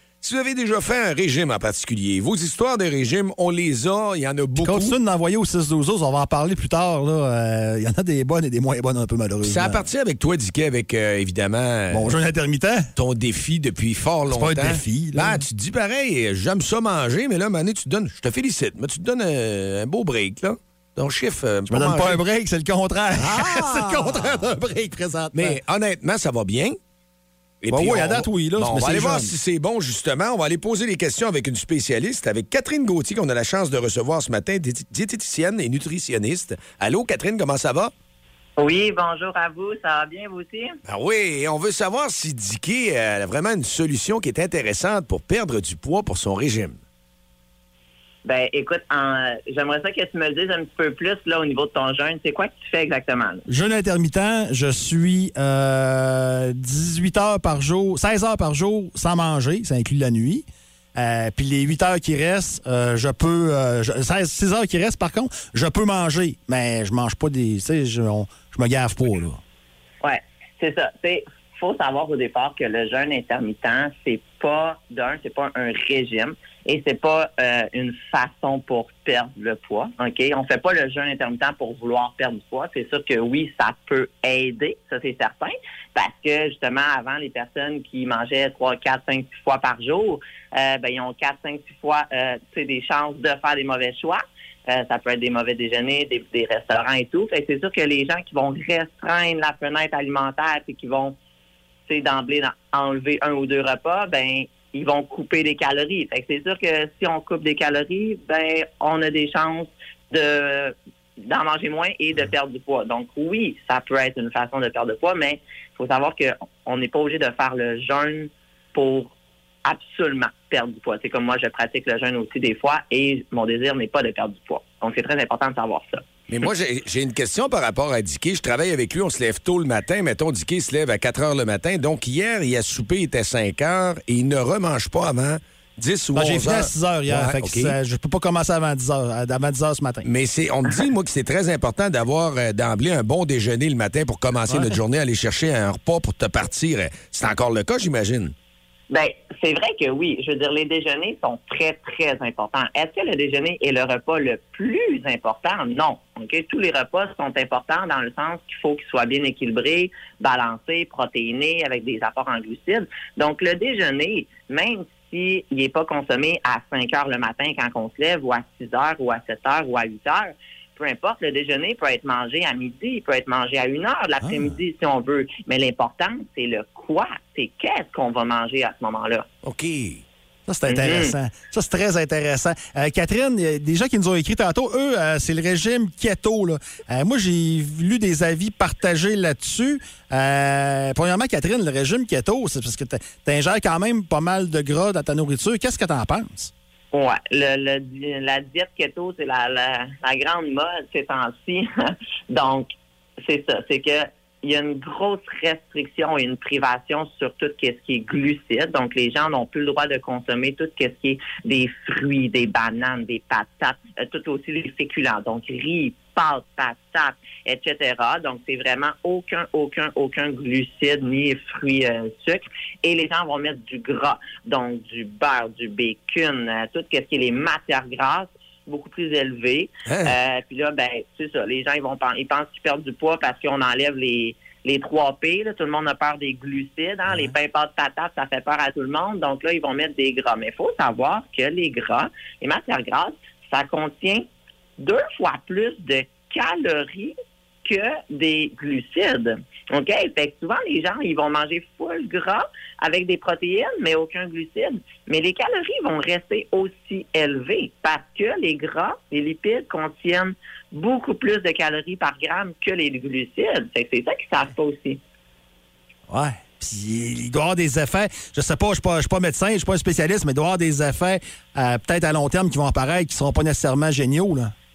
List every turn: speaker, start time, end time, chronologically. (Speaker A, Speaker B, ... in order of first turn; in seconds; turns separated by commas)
Speaker A: 0.2-4.9, Speaker B: 4.6-9.8, Speaker A: 9.4-12.1, Speaker B: 11.9-12.9, Speaker A: 12.9-22.2, Speaker B: 14.3-15.4, Speaker B: 21.7-25.6, Speaker A: 23.2-24.5, Speaker A: 25.3-26.8, Speaker A: 27.6-37.9, Speaker B: 27.7-29.3, Speaker C: 38.6-40.8, Speaker A: 40.9-46.8, Speaker C: 48.2-53.4, Speaker B: 53.5-69.4, Speaker C: 70.0-101.2, Speaker C: 101.9-119.1, Speaker C: 119.6-126.0, Speaker A: 126.3-137.7, Speaker B: 136.1-140.1, Speaker A: 140.0-148.3, Speaker B: 144.5-144.8, Speaker C: 148.9-179.3, Speaker B: 174.2-174.5, Speaker A: 179.4-180.0, Speaker B: 180.5-196.5, Speaker C: 180.7-181.2, Speaker C: 196.9-202.7, Speaker C: 203.2-244.2, Speaker A: 229.9-230.1, Speaker C: 244.8-265.0, Speaker B: 266.1-274.5